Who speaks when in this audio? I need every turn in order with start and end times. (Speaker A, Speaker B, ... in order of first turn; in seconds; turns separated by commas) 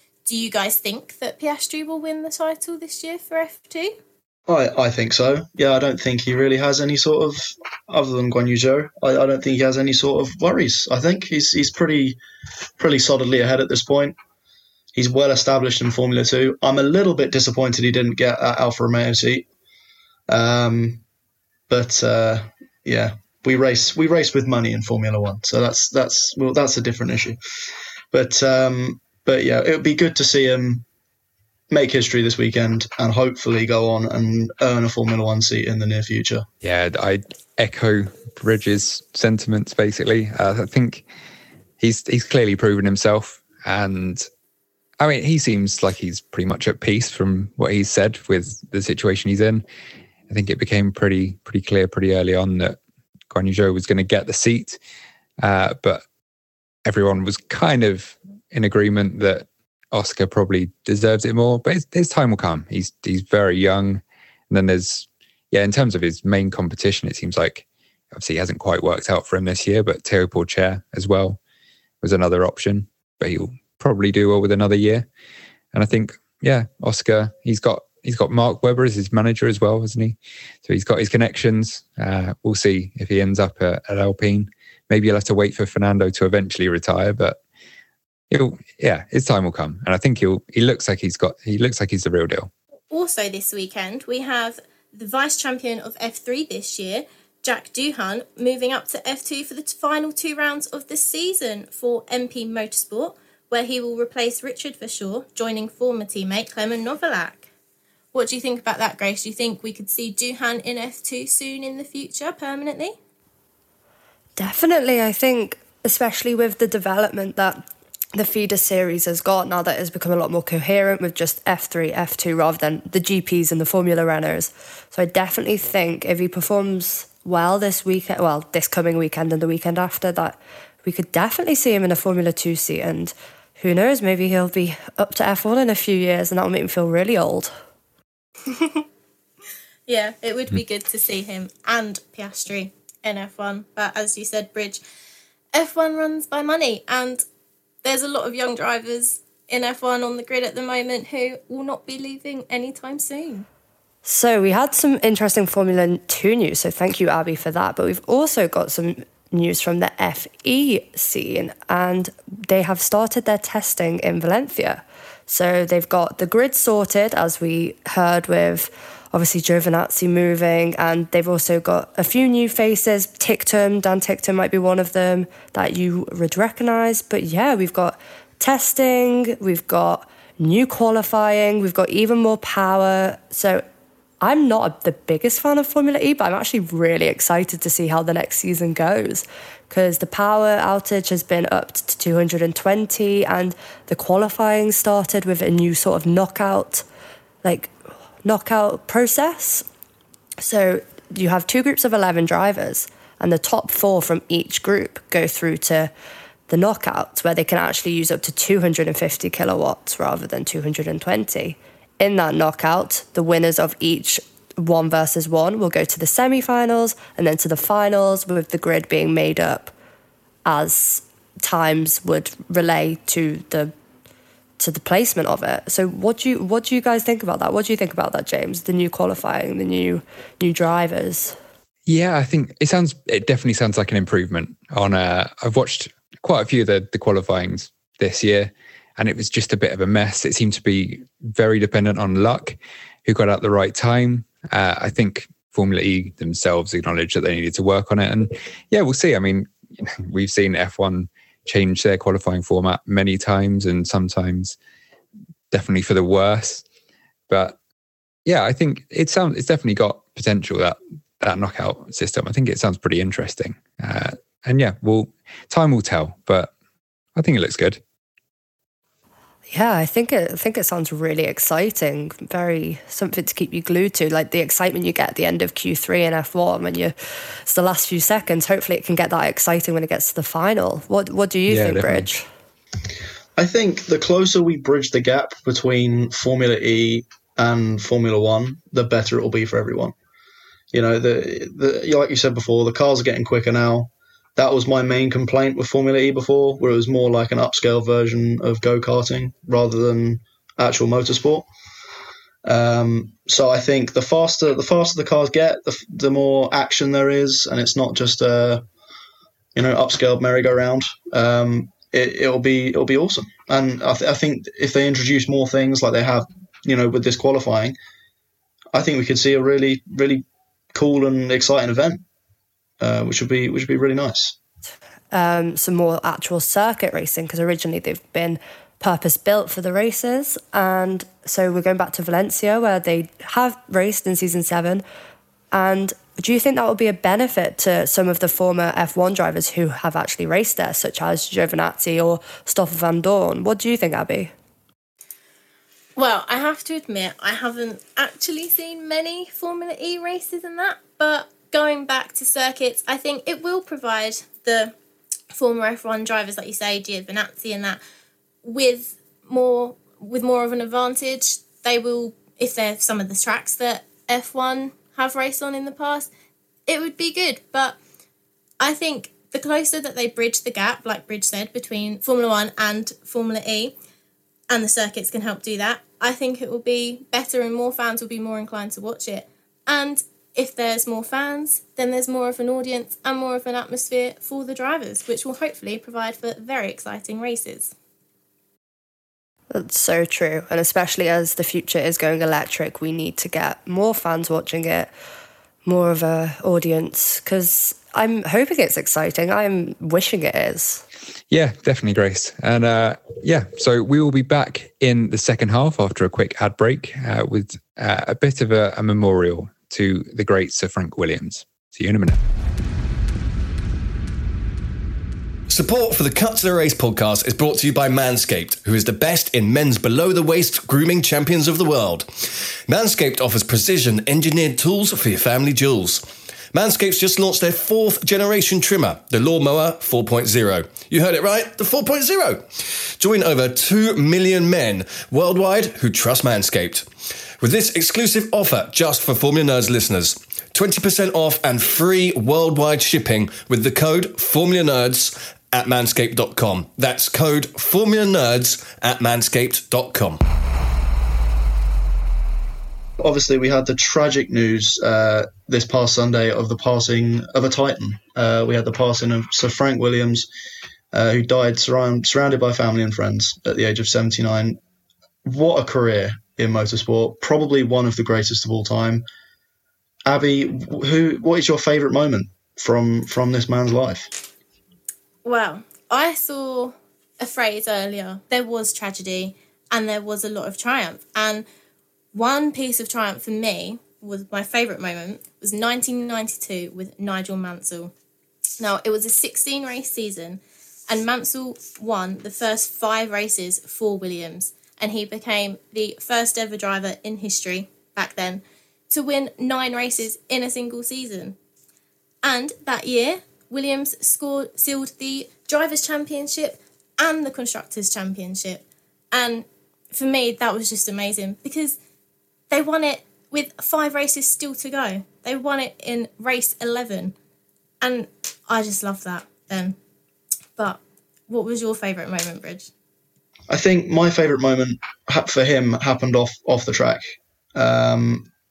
Speaker A: 0.3-4.0, Speaker B: 4.5-12.2, Speaker B: 12.8-14.2, Speaker B: 14.9-19.5, Speaker B: 20.3-21.0, Speaker B: 21.7-27.4, Speaker B: 28.1-30.9, Speaker B: 31.7-36.5, Speaker C: 36.6-41.0, Speaker C: 41.8-44.3, Speaker C: 45.0-49.6, Speaker C: 50.3-52.8, Speaker C: 53.3-54.8, Speaker C: 55.4-56.0, Speaker C: 56.9-71.4, Speaker C: 72.0-75.1, Speaker C: 75.7-87.4, Speaker C: 88.3-92.5, Speaker A: 92.9-107.5, Speaker A: 108.1-113.0, Speaker D: 114.4-137.5, Speaker A: 138.5-138.8, Speaker A: 139.9-144.8, Speaker A: 145.5-147.2, Speaker A: 147.8-153.5, Speaker D: 154.0-183.6, Speaker D: 184.2-196.8, Speaker D: 197.4-199.7, Speaker D: 200.4-205.9, Speaker D: 206.5-219.7, Speaker D: 220.5-223.7, Speaker D: 224.6-231.4, Speaker C: 231.9-254.6, Speaker C: 255.5-256.6, Speaker C: 257.3-257.6, Speaker C: 258.3-266.5, Speaker C: 267.2-267.8, Speaker D: 269.5-282.3, Speaker C: 281.5-282.1, Speaker B: 283.4-289.9, Speaker B: 290.7-301.5, Speaker B: 302.4-308.6, Speaker B: 309.6-317.8, Speaker B: 318.7-322.0, Speaker B: 322.8-324.4, Speaker D: 325.1-334.8, Speaker D: 335.5-344.3, Speaker A: 346.0-354.7, Speaker A: 355.3-357.8, Speaker A: 358.4-366.1, Speaker A: 366.7-367.8, Speaker A: 368.6-373.7, Speaker A: 374.5-387.7, Speaker D: 389.5-394.9, Speaker D: 395.6-400.8, Speaker C: 401.3-412.2, Speaker E: 415.5-436.9, Speaker E: 437.4-450.2, Speaker B: 453.0-460.3, Speaker B: 460.9-464.6, Speaker B: 465.2-469.1, Speaker B: 470.1-474.1, Speaker A: 475.2-481.5, Speaker A: 482.1-487.9, Speaker A: 488.6-501.4, Speaker A: 502.2-511.8, Speaker A: 512.5-517.1, Speaker A: 517.8-519.8, Speaker A: 520.6-522.7, Speaker B: 523.5-528.3